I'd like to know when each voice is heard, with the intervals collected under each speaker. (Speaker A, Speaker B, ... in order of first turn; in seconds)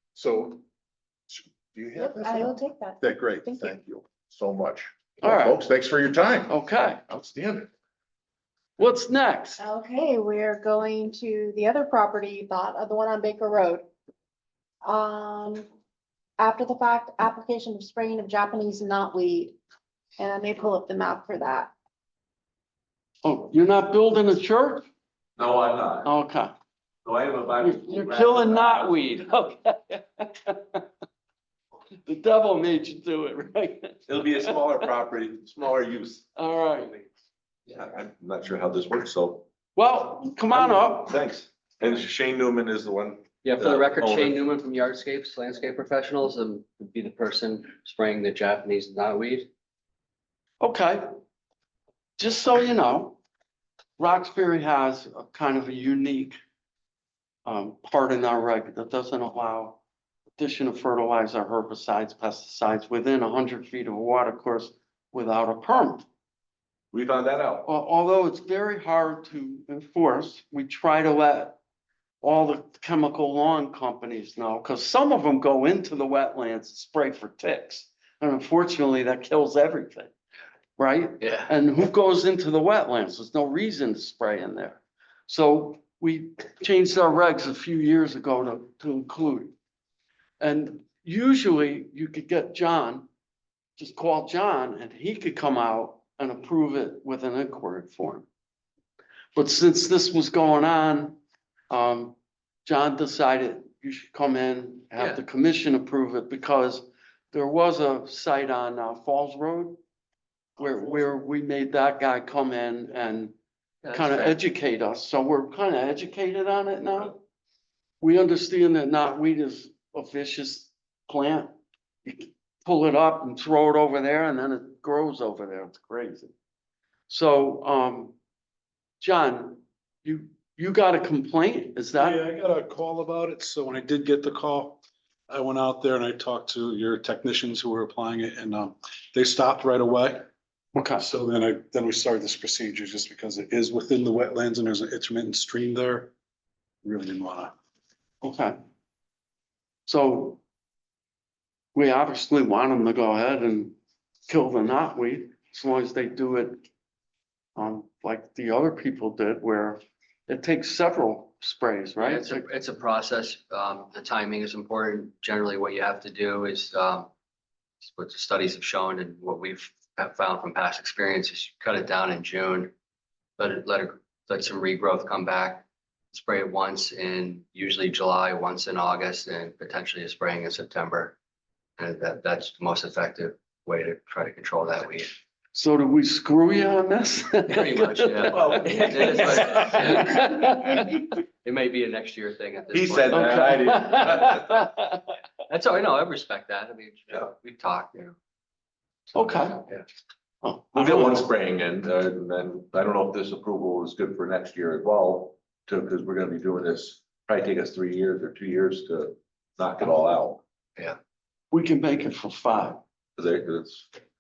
Speaker A: 0.2-0.6, 1.3-6.5
Speaker B: 1.9-4.5, 5.2-6.2, 7.1-7.7, 9.6-13.9, 14.8-15.6, 16.4-19.6, 20.2-21.7
Speaker C: 5.2-5.6, 6.5-7.0, 8.8-9.6, 23.2-24.9, 26.0-26.5, 27.6-30.8, 32.0-34.6, 36.4-37.0, 39.8-41.2, 50.6-51.0, 52.2-53.2, 54.0-56.4, 57.5-59.8, 60.4-66.1, 67.7-71.6, 72.2-80.1, 80.8-89.5, 90.4-93.1, 93.8-98.3, 99.3-101.2, 101.7-109.8, 110.6-113.3, 113.9-117.2, 118.0-121.5, 122.0-126.3, 127.1-128.2, 129.0-132.2, 140.8-141.1, 148.2-148.6, 149.9-150.4, 151.8-153.8, 154.3-156.6, 157.6-162.4, 185.5-191.0, 193.1-194.3, 199.1-199.6, 200.4-201.3, 211.5-212.8
Speaker D: 25.4-26.1, 27.1-29.0, 34.1-36.2, 37.7-39.5, 40.5-44.4, 66.9-67.7, 188.3-189.6, 192.7-194.5, 200.8-210.4, 213.2-213.9
Speaker E: 43.4-49.5, 81.2-81.5, 113.8-114.4, 162.0-167.1, 167.8-172.7, 173.4-181.2, 181.8-185.1, 187.5-190.8, 191.4-194.7, 195.5-198.2, 199.2-199.8
Speaker F: 131.9-140.3, 141.0-146.1, 146.8-147.6